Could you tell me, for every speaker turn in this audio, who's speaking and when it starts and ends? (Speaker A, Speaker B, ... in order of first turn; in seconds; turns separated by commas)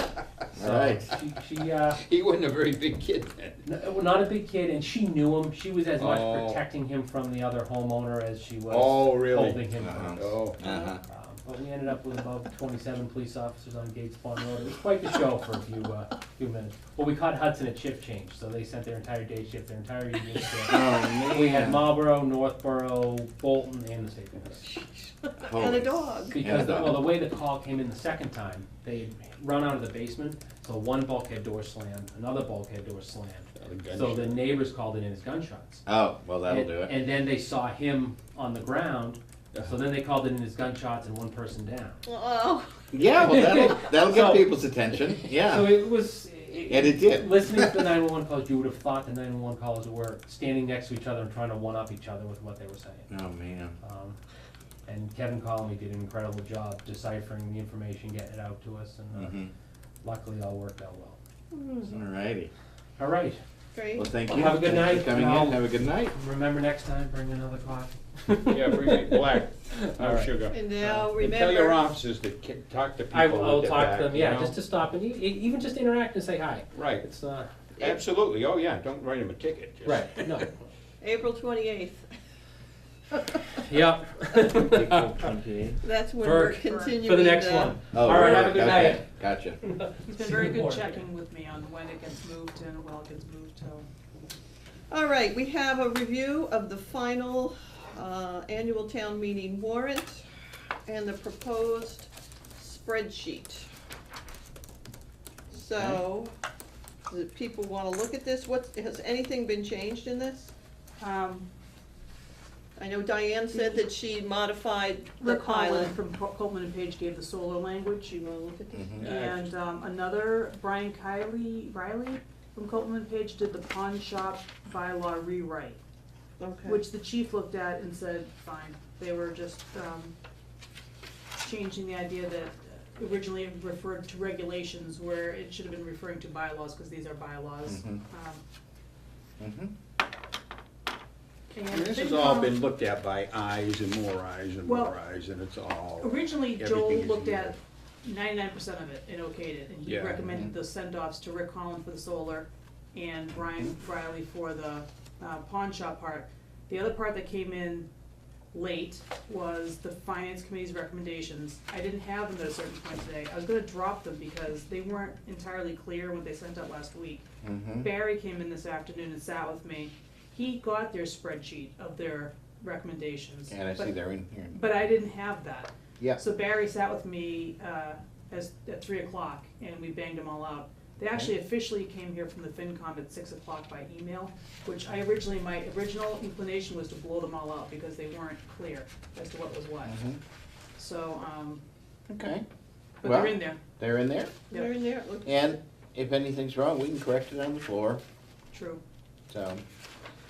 Speaker A: 0.5-1.1, Speaker B: 0.5-2.0, Speaker C: 2.0-3.6, Speaker B: 3.6-10.2, Speaker C: 6.0-6.6, Speaker C: 8.7-10.6, Speaker A: 9.8-11.0, Speaker D: 10.6-10.9, Speaker B: 11.0-24.6, Speaker A: 20.6-21.9, Speaker D: 25.4-26.4, Speaker A: 25.4-27.1, Speaker B: 26.3-35.8, Speaker C: 33.5-34.4, Speaker A: 35.9-36.9, Speaker B: 36.5-42.0, Speaker D: 42.0-42.9, Speaker A: 42.9-45.8, Speaker B: 43.2-44.5, Speaker B: 45.3-53.1, Speaker A: 46.7-47.8, Speaker A: 53.1-53.8, Speaker B: 53.8-54.2, Speaker B: 54.9-59.4, Speaker A: 59.1-59.5, Speaker B: 60.0-61.2, Speaker D: 61.5-62.0, Speaker A: 61.9-62.5, Speaker B: 63.0-63.4, Speaker D: 63.7-64.1, Speaker A: 64.0-66.1, Speaker B: 64.2-70.3, Speaker C: 68.5-74.5, Speaker D: 70.5-71.8, Speaker B: 73.1-77.5, Speaker C: 76.7-77.0, Speaker C: 77.8-80.4, Speaker B: 79.8-80.7, Speaker D: 81.0-82.1, Speaker B: 83.6-85.2, Speaker A: 84.8-85.7, Speaker D: 85.8-88.9, Speaker B: 86.2-89.1, Speaker E: 86.7-87.0, Speaker A: 87.9-89.6, Speaker B: 89.6-91.0, Speaker E: 90.1-93.9, Speaker D: 94.9-100.2, Speaker D: 100.9-103.7, Speaker D: 105.5-106.3, Speaker D: 107.1-110.5, Speaker E: 111.0-111.5, Speaker D: 112.8-115.9, Speaker E: 113.5-113.8, Speaker E: 115.2-118.1, Speaker D: 118.1-119.0, Speaker A: 118.7-119.0, Speaker C: 119.0-119.5, Speaker E: 119.0-125.8, Speaker D: 126.4-126.8, Speaker E: 126.6-130.1, Speaker E: 131.4-138.4, Speaker A: 137.7-138.0, Speaker A: 139.4-139.7, Speaker E: 141.5-142.6, Speaker C: 141.7-147.5, Speaker E: 144.6-144.9, Speaker E: 146.0-157.9, Speaker C: 149.8-150.3, Speaker E: 158.5-167.2, Speaker A: 167.4-167.9, Speaker E: 167.8-173.9, Speaker A: 173.5-174.6, Speaker E: 174.5-190.0, Speaker A: 189.8-190.2, Speaker E: 190.8-191.6, Speaker A: 192.1-192.4, Speaker E: 193.0-193.6, Speaker A: 193.0-194.4, Speaker D: 194.5-195.6, Speaker A: 195.2-198.0, Speaker E: 198.5-198.8, Speaker A: 199.3-199.6